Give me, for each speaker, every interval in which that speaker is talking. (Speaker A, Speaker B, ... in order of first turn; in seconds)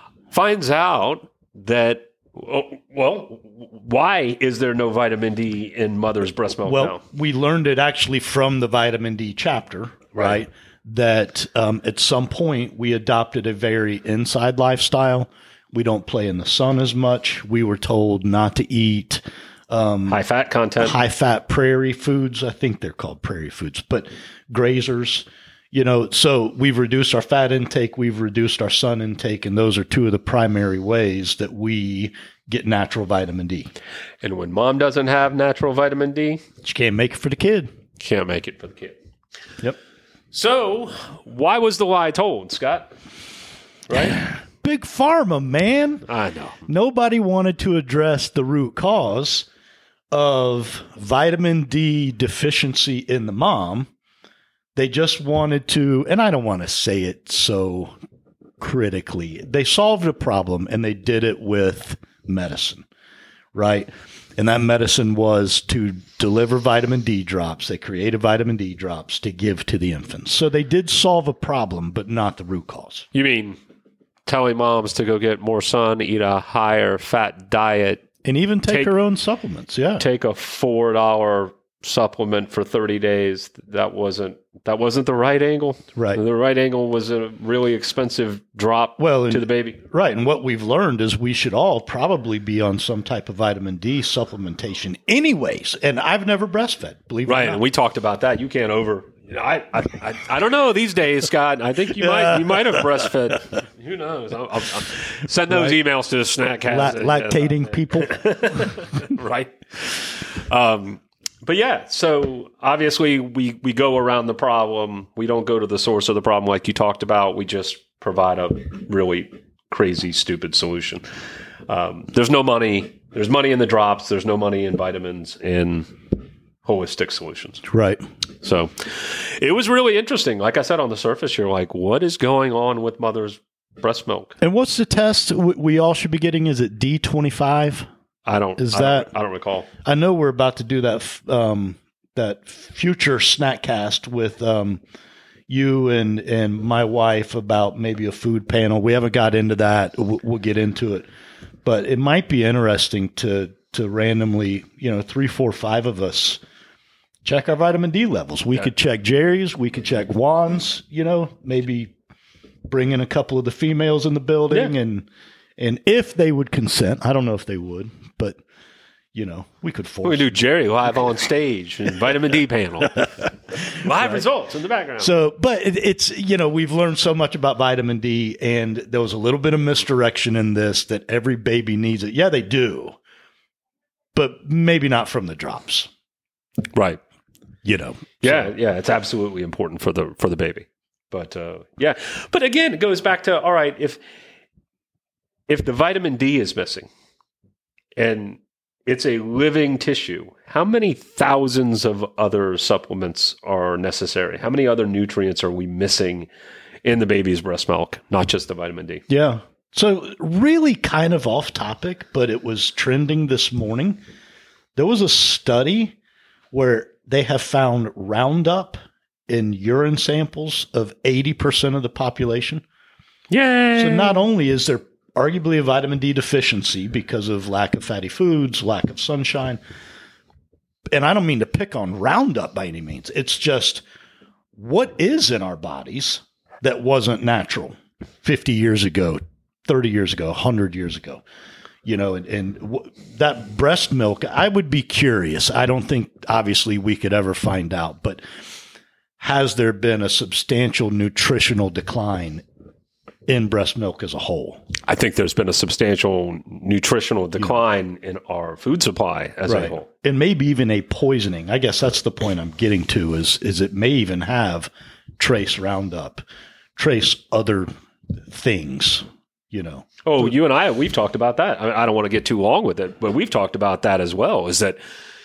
Speaker A: 0.3-7.0, 20.1-21.0, 34.2-36.4, 38.0-39.0, 40.3-42.9, 43.9-44.2, 46.1-46.6, 73.1-73.6, 74.3-78.1, 78.7-78.9, 80.0-89.8, 97.3-121.0, 121.7-125.9, 126.6-127.6, 128.4-134.3, 138.3-139.7, 170.0-175.2, 186.7-187.0, 188.2-194.0, 195.5-196.9, 198.0-206.3, 206.8-209.0, 223.3-224.2, 254.9-259.9, 270.1-274.8
Speaker B: 6.7-20.2, 20.8-33.7, 36.6-37.7, 44.1-46.0, 46.7-49.5, 50.1-53.9, 54.8-57.9, 58.6-62.9, 63.5-73.1, 78.2-80.0, 86.0-86.2, 89.0-97.6, 102.0-103.1, 105.5-105.8, 106.7-108.2, 127.6-128.0, 134.4-137.9, 138.6-139.1, 139.8-144.8, 145.5-151.1, 151.6-156.4, 157.2-161.9, 162.7-165.1, 165.6-168.4, 169.1-170.4, 173.9-174.2, 175.0-182.9, 184.2-185.9, 187.7-188.5, 209.1-214.0, 214.8-216.0, 216.5-222.6, 223.8-229.6, 230.9-233.8, 234.6-241.2, 241.8-248.2, 249.2-252.4, 253.3-254.6, 259.5-266.2, 266.8-267.7, 268.3-270.3